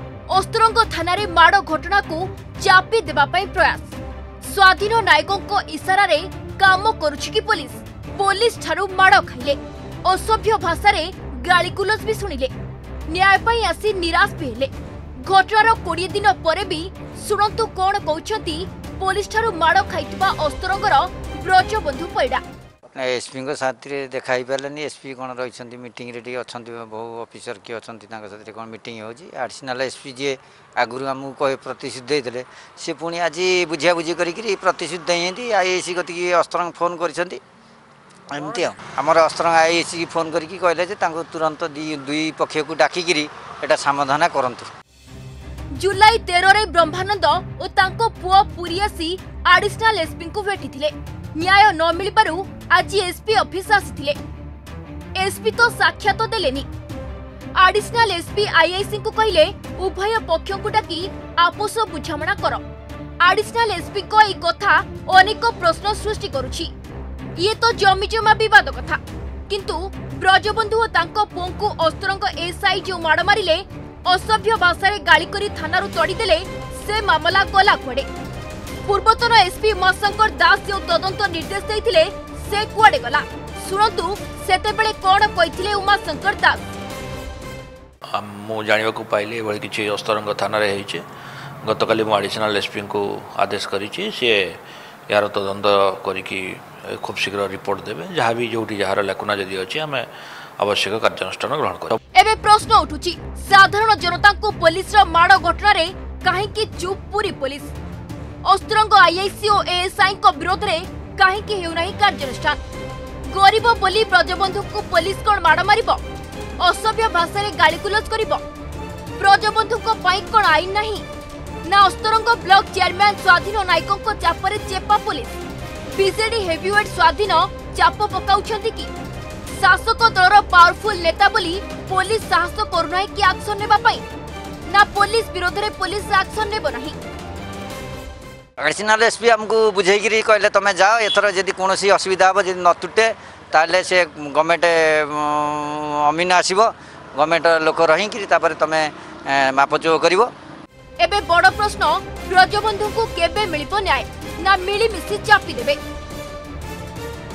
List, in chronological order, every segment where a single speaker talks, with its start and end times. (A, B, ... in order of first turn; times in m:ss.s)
0:00.3-0:12.5 A
0:13.1-0:14.7 A
0:15.2-0:22.4 A
0:23.0-0:37.4 B
0:38.3-0:44.7 B
0:45.7-0:54.2 A
0:55.2-0:56.7 A
0:57.6-1:02.6 A
1:03.2-1:06.7 A
1:07.4-1:18.1 A
1:18.8-1:26.6 A
1:28.1-1:31.0 C
1:31.6-1:40.1 C
1:40.6-1:42.0 C
1:42.1-1:47.7 A
1:48.4-1:52.6 A
1:53.3-1:56.0 A
1:56.6-1:58.4 A
1:59.2-2:01.0 A
2:01.6-2:05.4 A
2:05.9-2:08.9 A
2:09.5-2:14.0 A
2:14.7-2:17.0 A
2:18.6-2:30.3 B
2:31.0-2:35.8 A